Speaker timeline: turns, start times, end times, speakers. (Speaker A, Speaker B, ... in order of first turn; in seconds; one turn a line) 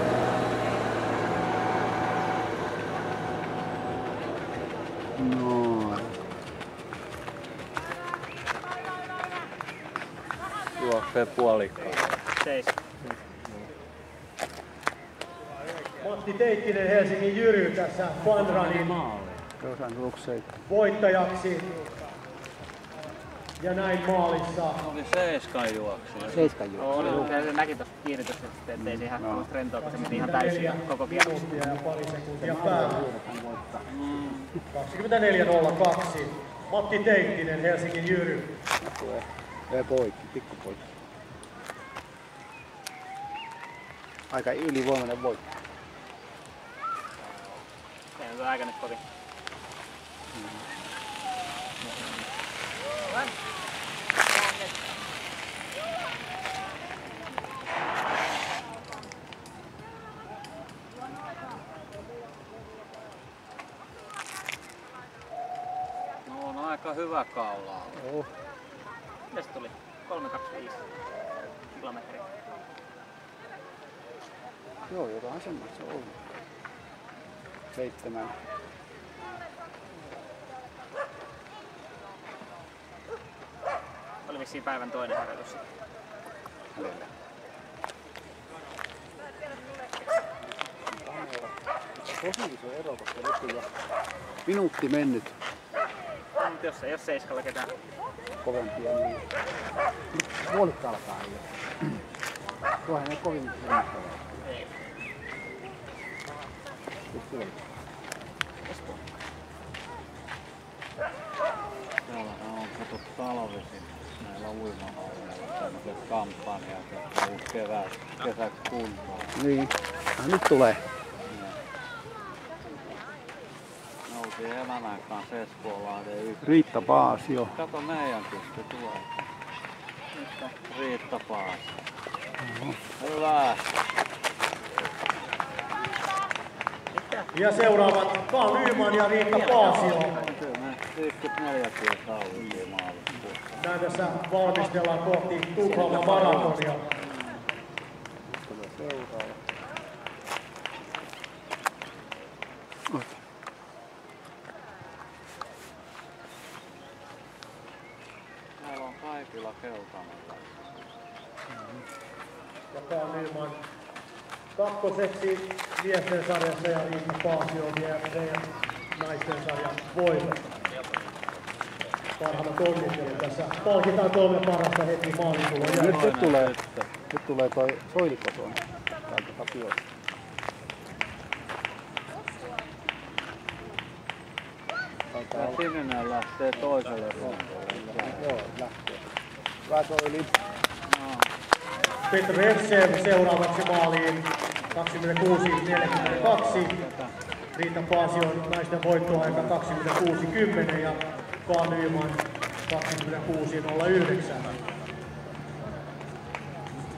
Speaker A: 5.2-6.2
Speaker B: 10.8-12.1
Speaker C: 12.3-12.8
Speaker A: 13.0-13.7
Speaker D: 16.0-19.0
Speaker B: 18.2-19.5
Speaker A: 19.6-20.5
Speaker D: 20.6-21.7
Speaker D: 23.6-24.8
Speaker B: 24.8-27.5
Speaker A: 26.3-27.3
Speaker C: 26.8-31.7
Speaker A: 28.8-29.5
Speaker D: 29.8-33.1
Speaker A: 32.4-34.6
Speaker B: 33.9-34.5
Speaker D: 34.7-38.6
Speaker A: 38.8-40.9
Speaker A: 44.3-45.4
Speaker C: 48.1-49.0
Speaker A: 50.3-50.6
Speaker B: 66.2-68.0
Speaker A: 67.9-68.3
Speaker C: 69.3-70.9
Speaker C: 71.7-72.3
Speaker A: 74.9-76.2
Speaker A: 77.7-78.4
Speaker C: 84.2-85.7
Speaker A: 86.7-87.1
Speaker A: 90.7-93.7
Speaker A: 94.5-95.3
Speaker C: 96.4-97.7
Speaker A: 98.4-99.2
Speaker A: 100.1-102.0
Speaker A: 102.8-104.4
Speaker C: 104.4-104.8
Speaker A: 107.1-107.6
Speaker C: 108.6-109.1
Speaker B: 112.0-119.4
Speaker A: 119.3-120.9
Speaker B: 121.2-121.6
Speaker B: 124.0-126.7
Speaker A: 126.4-127.6
Speaker B: 127.4-129.3
Speaker C: 130.1-130.5
Speaker B: 130.7-131.8
Speaker A: 132.4-132.8
Speaker B: 133.0-133.7
Speaker C: 136.9-137.3
Speaker D: 137.3-140.2
Speaker C: 139.3-140.3
Speaker B: 140.1-143.7
Speaker D: 143.6-146.8
Speaker C: 145.6-147.4
Speaker A: 148.3-149.4
Speaker B: 158.6-160.6
Speaker A: 161.5-161.8
Speaker D: 162.7-163.7
Speaker D: 164.5-170.5
Speaker D: 172.2-176.0
Speaker B: 175.6-176.9
Speaker A: 175.7-176.5
Speaker A: 177.1-179.8
Speaker A: 185.1-185.6
Speaker B: 185.3-188.5
Speaker A: 187.2-189.1
Speaker A: 189.7-190.3
Speaker B: 190.9-191.3
Speaker D: 192.1-196.8
Speaker B: 195.7-197.1
Speaker D: 197.5-204.5